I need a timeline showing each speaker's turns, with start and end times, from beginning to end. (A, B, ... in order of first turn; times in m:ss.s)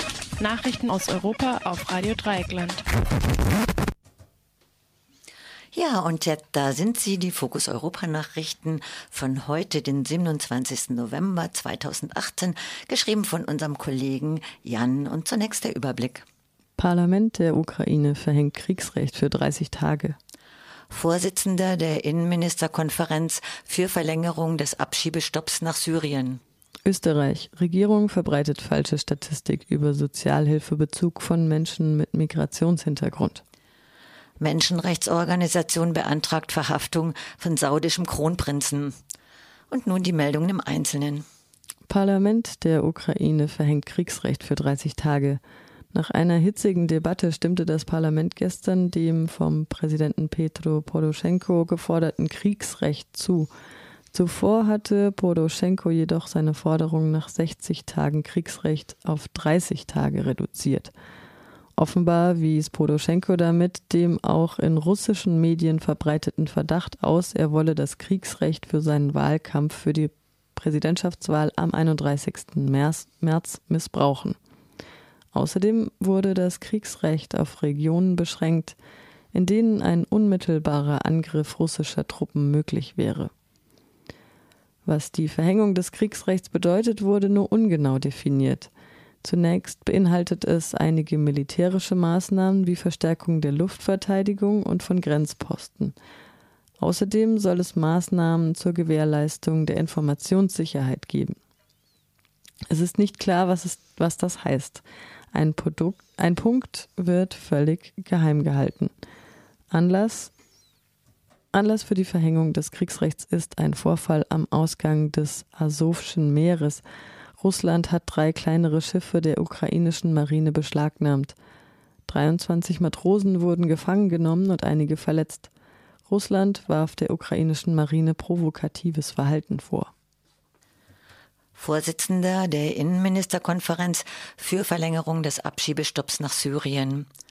0:00.4-0:02.8 A
0:05.7-0:16.2 B
0:16.8-0:20.2 C
0:20.9-0:26.4 B
0:26.8-0:33.4 C
0:34.4-0:38.9 B
0:39.7-0:41.2 B
0:41.9-0:45.4 C
0:45.9-0:53.5 C
0:54.1-1:00.9 C
1:01.8-1:14.4 C
1:15.3-1:18.8 C
1:19.3-1:23.3 C
1:24.8-1:28.7 C
1:29.2-1:35.9 C
1:36.8-1:41.4 C
1:42.7-1:48.9 C
1:49.7-1:50.3 C
1:51.5-1:56.8 C
1:57.4-2:01.3 C
2:02.1-2:05.5 C
2:06.1-2:09.9 C
2:11.5-2:17.1 B